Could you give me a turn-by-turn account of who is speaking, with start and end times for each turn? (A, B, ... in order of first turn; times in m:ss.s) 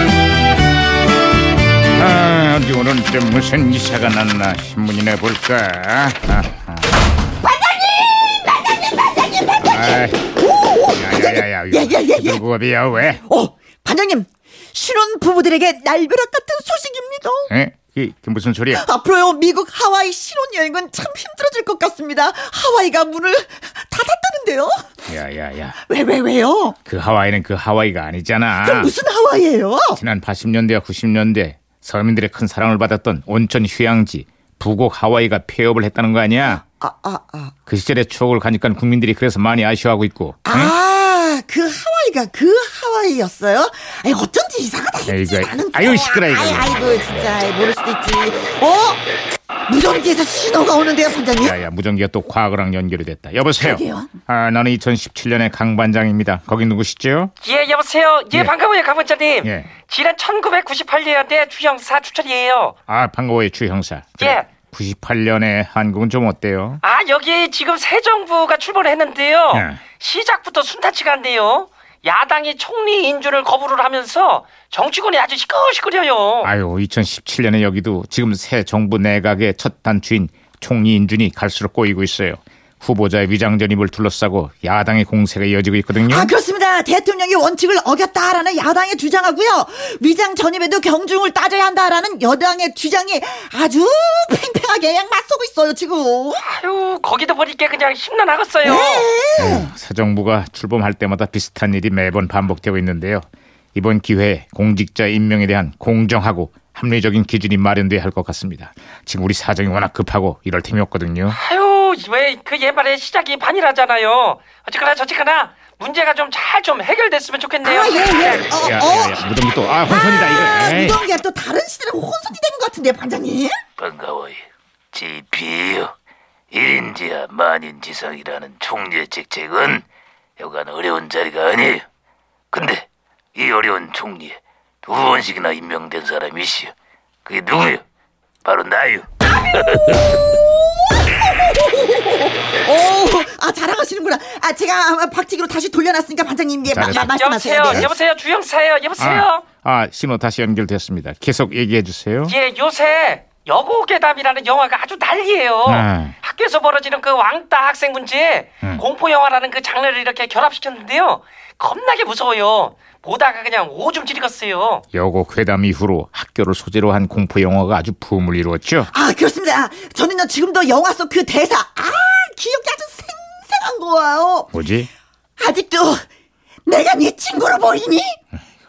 0:01.9-0:06.9 A
0:07.4-0:12.4 B
0:09.6-0:10.2 A
0:10.9-0:13.2 A
0:13.1-0:17.5 B
0:17.5-0:18.8 A
0:18.7-0:24.8 B
0:25.1-0:25.8 A
0:25.8-0:26.8 B
0:26.8-0:28.9 A
0:28.6-0:30.0 B
0:29.9-0:36.6 A
0:36.5-0:37.5 B
0:37.7-0:40.7 A
0:40.4-0:49.0 B
0:45.1-0:46.8 A
0:49.7-0:51.6 B
0:51.4-0:57.3 A
0:53.6-0:54.1 B
0:57.4-1:02.8 C
0:59.4-0:59.7 A
1:02.9-1:06.8 A
1:04.2-1:04.5 C
1:06.8-1:16.5 C
1:09.5-1:09.8 A
1:16.4-1:26.3 A
1:26.0-1:36.4 B
1:36.4-1:39.1 C
1:38.6-1:39.7 B
1:39.4-1:43.2 A
1:43.7-1:51.4 A
1:51.3-1:58.5 C
1:57.6-1:59.2 B
1:58.5-2:01.0 A
1:59.8-2:03.6 B
2:03.8-2:04.4 D
2:04.9-2:05.9 D
2:06.5-2:09.8 D
2:10.4-2:11.8 D
2:12.5-2:16.7 D
2:17.2-2:17.8 D
2:18.4-2:19.0 D
2:21.0-2:27.9 B
2:26.7-2:27.1 A
2:26.9-2:29.4 C
2:27.6-2:27.9 A
2:29.0-2:32.3 A
2:32.2-2:44.8 C
2:35.6-2:36.1 A
2:44.9-2:48.9 A
2:48.9-2:54.5 B
2:54.5-2:54.9 A
2:55.4-2:56.0 B
2:56.6-2:58.2 B